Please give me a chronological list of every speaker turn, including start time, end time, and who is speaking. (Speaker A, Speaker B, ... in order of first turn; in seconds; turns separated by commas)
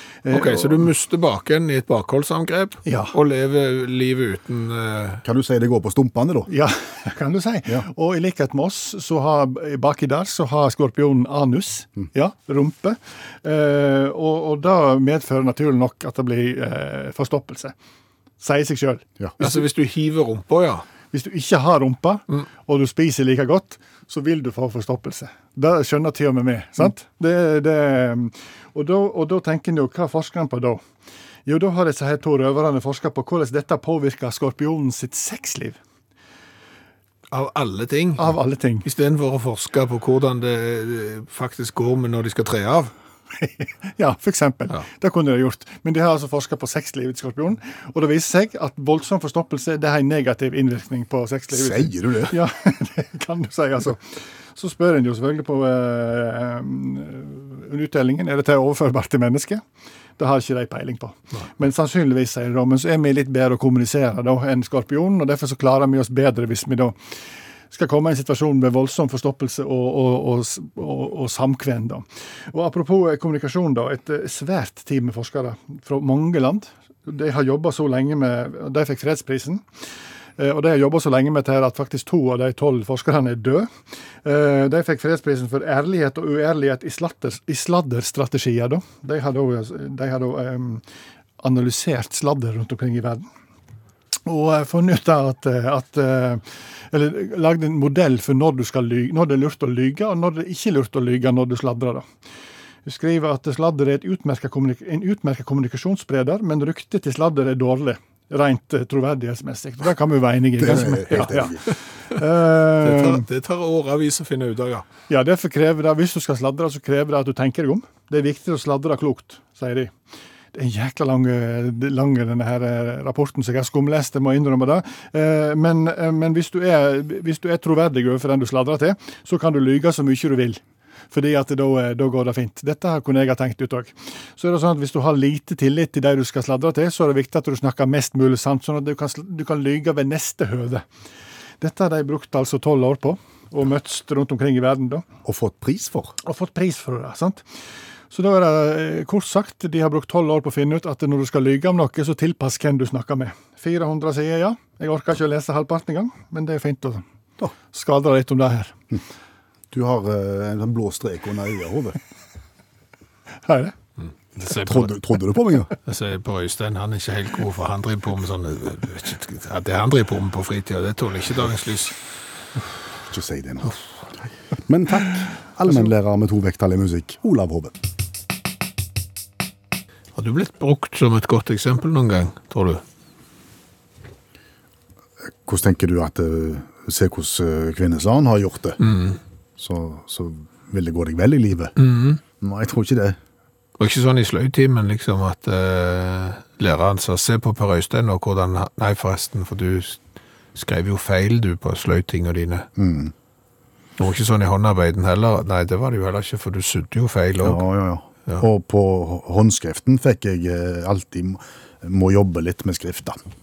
Speaker A: 0.2-0.9, Speaker B: 0.3-5.2, Speaker A: 2.9-3.1, Speaker C: 5.2-6.5, Speaker A: 6.5-17.7, Speaker A: 18.4-19.6, Speaker B: 19.4-20.9, Speaker A: 21.1-30.8, Speaker A: 31.5-35.8, Speaker B: 37.3-42.9, Speaker A: 38.2-38.9, Speaker A: 43.4-59.6, Speaker C: 51.5-52.4, Speaker A: 60.2-67.0, Speaker A: 67.7-79.7, Speaker A: 80.4-83.7, Speaker A: 84.2-90.8, Speaker A: 91.4-93.3, Speaker A: 94.3-102.1, Speaker A: 102.8-113.2, Speaker C: 110.6-111.7, Speaker B: 112.8-114.8, Speaker A: 115.1-119.9, Speaker A: 120.5-140.8, Speaker A: 141.6-145.1, Speaker C: 145.2-146.2, Speaker A: 146.2-147.4, Speaker A: 148.1-157.0, Speaker A: 157.7-158.7, Speaker C: 159.7-162.0, Speaker A: 163.4-163.7, Speaker B: 164.0-164.9, Speaker C: 164.6-165.7, Speaker B: 165.8-172.0, Speaker C: 173.1-173.8, Speaker C: 174.7-177.8, Speaker B: 180.2-182.8, Speaker C: 185.4-188.8, Speaker B: 188.8-189.2, Speaker C: 189.6-191.7, Speaker B: 191.8-192.2, Speaker C: 192.4-193.2, Speaker B: 193.8-200.0, Speaker B: 200.6-202.7, Speaker C: 202.8-203.1, Speaker B: 204.0-207.6, Speaker C: 207.4-213.2